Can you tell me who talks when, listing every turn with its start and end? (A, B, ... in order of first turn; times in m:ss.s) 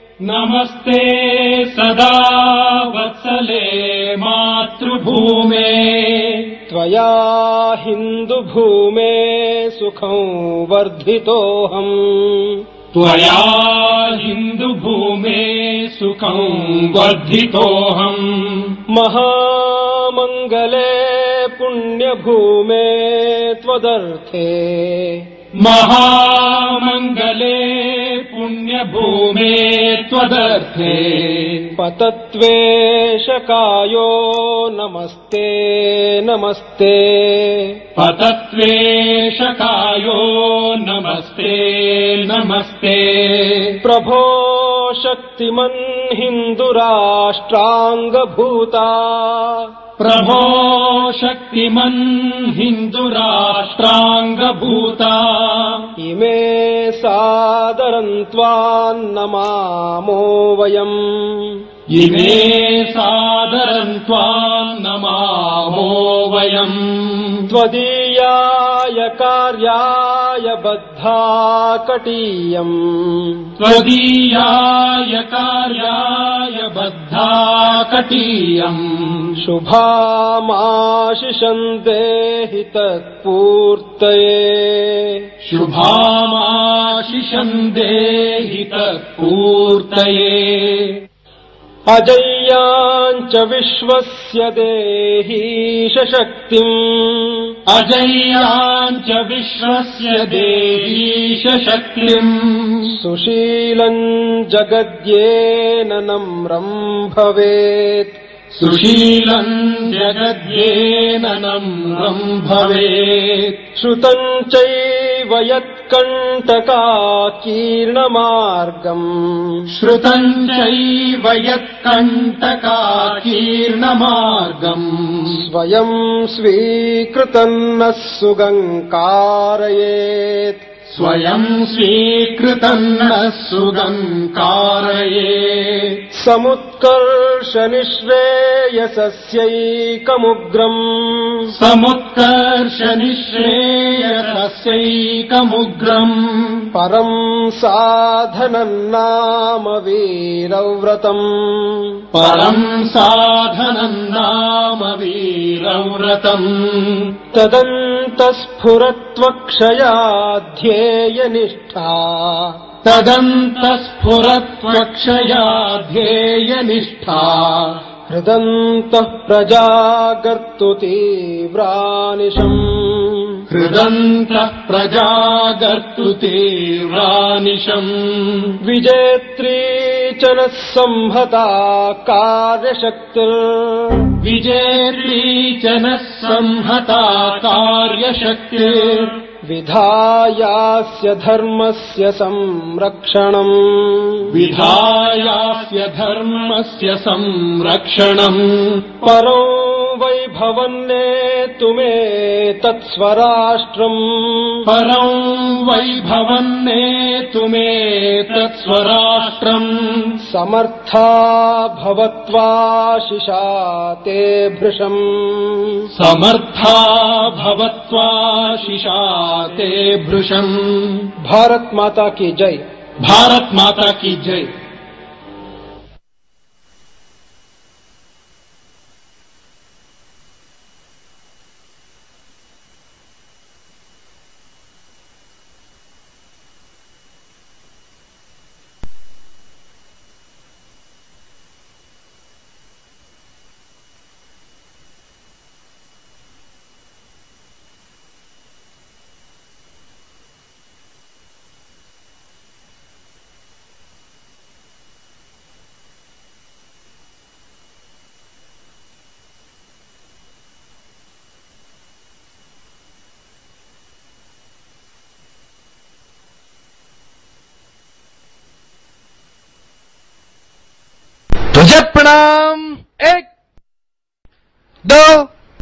0:00.2-0:06.6 A
0:06.7-0:12.6 B
0:12.9-0:18.8 A
0:18.9-0:25.3 B
0:25.6-0:31.7 A
0:31.8-0:37.8 B
0:38.0-0:43.8 A
0:43.8-0:49.7 B
0:50.0-0:55.9 A
0:56.0-1:01.7 B
1:01.9-1:07.5 A
1:07.5-1:13.5 B
1:13.6-1:19.4 A
1:19.4-1:25.3 B
1:25.4-1:31.0 A
1:31.9-1:37.5 B
1:37.7-1:43.0 A
1:42.9-1:48.2 B
1:48.6-1:53.6 A
1:53.8-1:59.7 B
1:59.7-2:05.4 A
2:05.3-2:10.7 B
2:10.9-2:16.0 A
2:16.1-2:21.5 B
2:21.5-2:26.7 A
2:26.7-2:32.0 B
2:32.1-2:37.1 A
2:37.3-2:42.6 B
2:42.8-2:47.8 A
2:48.1-2:53.4 B
2:53.5-2:58.6 A
2:58.6-3:04.1 B
3:04.2-3:09.2 A
3:09.4-3:14.3 B
3:14.3-3:18.8 A
3:19.0-3:24.6 B
3:24.7-3:30.2 A
3:30.3-3:35.9 B
3:35.9-3:41.1 A
3:41.3-3:42.6 B
3:43.0-3:44.5 A
4:31.5-4:33.3 C
4:34.8-4:35.3 C